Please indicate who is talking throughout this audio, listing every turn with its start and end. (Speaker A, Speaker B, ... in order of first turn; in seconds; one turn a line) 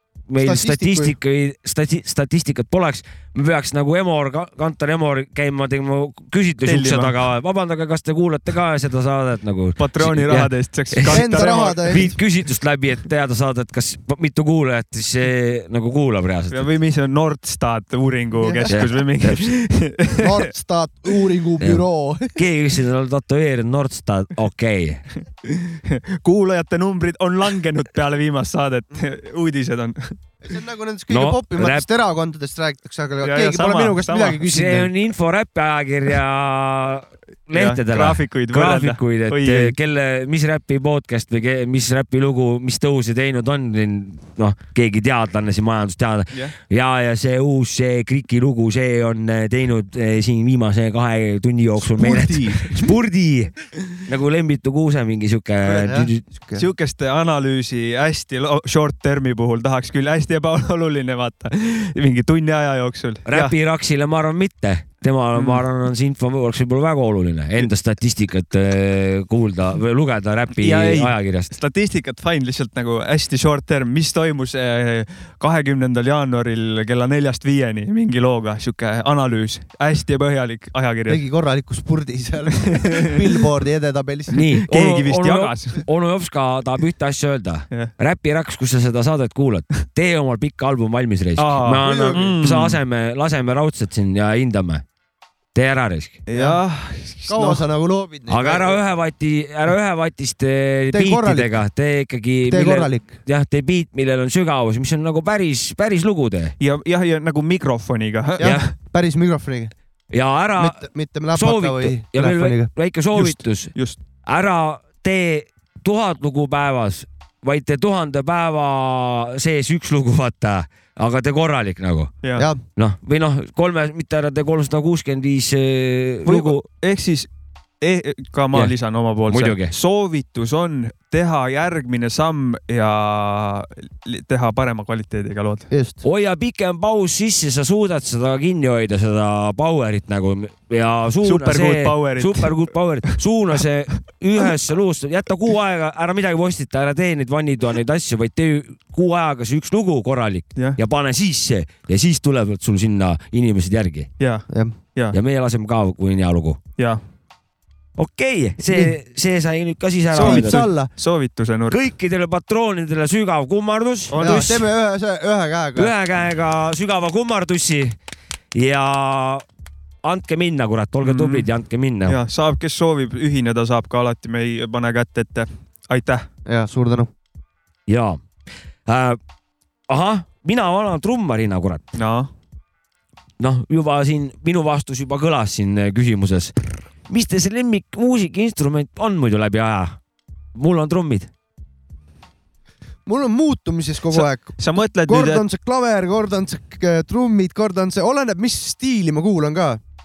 Speaker A: 0.3-16.7
Speaker B: 0.4-1.1
Speaker C: 6.6-7.1
Speaker C: 9.8-12.1
Speaker B: 11.1-12.1
Speaker C: 16.5-20.4
Speaker B: 18.4-18.8
Speaker A: 18.7-19.5
Speaker B: 20.1-22.4
Speaker A: 21.6-25.0
Speaker C: 25.4-30.1
Speaker B: 30.4-34.9
Speaker A: 31.1-31.9
Speaker C: 33.2-34.4
Speaker A: 34.5-56.2
Speaker C: 37.5-39.8
Speaker B: 51.9-52.9
Speaker B: 55.7-56.7
Speaker C: 56.5-63.5
Speaker A: 63.3-71.5
Speaker C: 65.3-65.6
Speaker C: 70.6-81.2
Speaker B: 81.1-84.5
Speaker C: 82.7-83.2
Speaker A: 84.3-94.8
Speaker C: 84.7-85.8
Speaker C: 91.4-92.8
Speaker B: 91.8-92.4
Speaker A: 95.5-96.2
Speaker C: 96.3-97.6
Speaker B: 96.3-96.6
Speaker B: 97.3-98.8
Speaker A: 98.3-106.5
Speaker B: 100.9-101.6
Speaker B: 102.5-103.1
Speaker C: 106.6-108.6
Speaker B: 108.4-109.7
Speaker A: 108.4-108.7
Speaker A: 110.1-110.8
Speaker B: 110.6-112.7
Speaker A: 111.3-113.8
Speaker C: 113.1-114.0
Speaker A: 114.3-122.1
Speaker B: 122.4-122.6
Speaker A: 122.8-126.6
Speaker C: 126.3-127.3
Speaker C: 127.8-135.7
Speaker A: 129.3-129.7
Speaker B: 135.7-136.0
Speaker A: 136.0-154.1
Speaker C: 141.2-143.2
Speaker C: 154.2-155.2
Speaker B: 154.5-154.8
Speaker A: 155.1-156.6
Speaker A: 158.0-160.7
Speaker B: 158.7-158.9
Speaker C: 160.1-161.8
Speaker B: 160.2-160.9
Speaker A: 161.7-164.2
Speaker C: 164.1-164.7
Speaker B: 164.2-165.9
Speaker A: 165.8-168.0
Speaker A: 168.5-169.4
Speaker A: 170.0-172.2
Speaker C: 171.0-171.5
Speaker C: 172.1-176.3
Speaker B: 176.5-177.1
Speaker A: 177.9-178.2
Speaker A: 178.9-179.2
Speaker A: 179.9-181.8
Speaker C: 182.0-182.3
Speaker A: 183.4-186.6
Speaker A: 187.1-190.0
Speaker A: 190.6-191.3
Speaker B: 193.1-199.8
Speaker C: 194.1-195.4